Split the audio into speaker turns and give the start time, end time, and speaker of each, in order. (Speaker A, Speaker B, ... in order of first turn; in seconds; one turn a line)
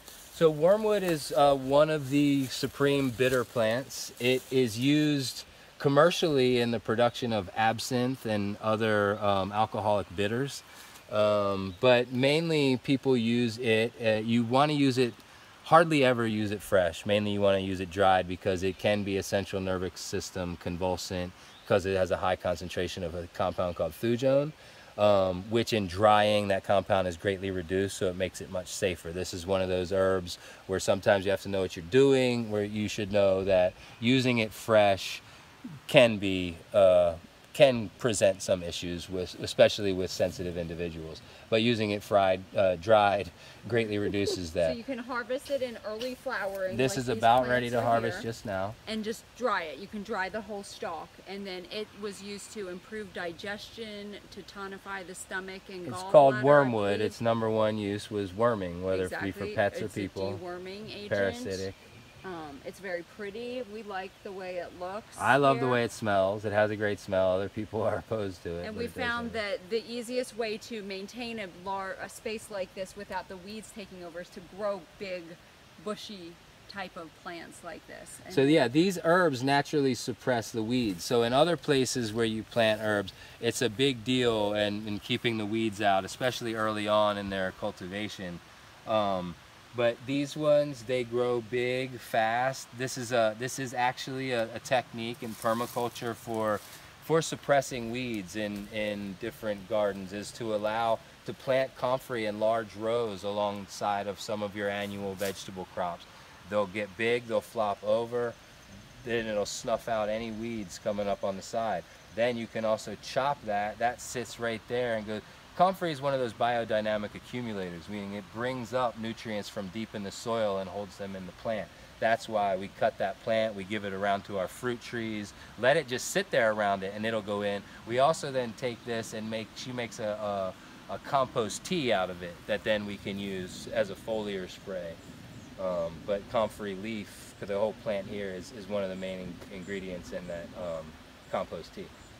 Speaker A: 0.3-35.2
Speaker A: 35.9-44.8
Speaker B: 44.6-48.3
Speaker A: 46.7-48.8
Speaker B: 48.9-57.2
Speaker A: 55.8-60.4
Speaker B: 58.9-61.7
Speaker A: 61.1-61.8
Speaker B: 62.2-65.8
Speaker A: 65.2-69.4
Speaker B: 68.6-78.7
Speaker A: 78.3-108.4
Speaker A: 109.0-135.0
Speaker A: 135.6-141.9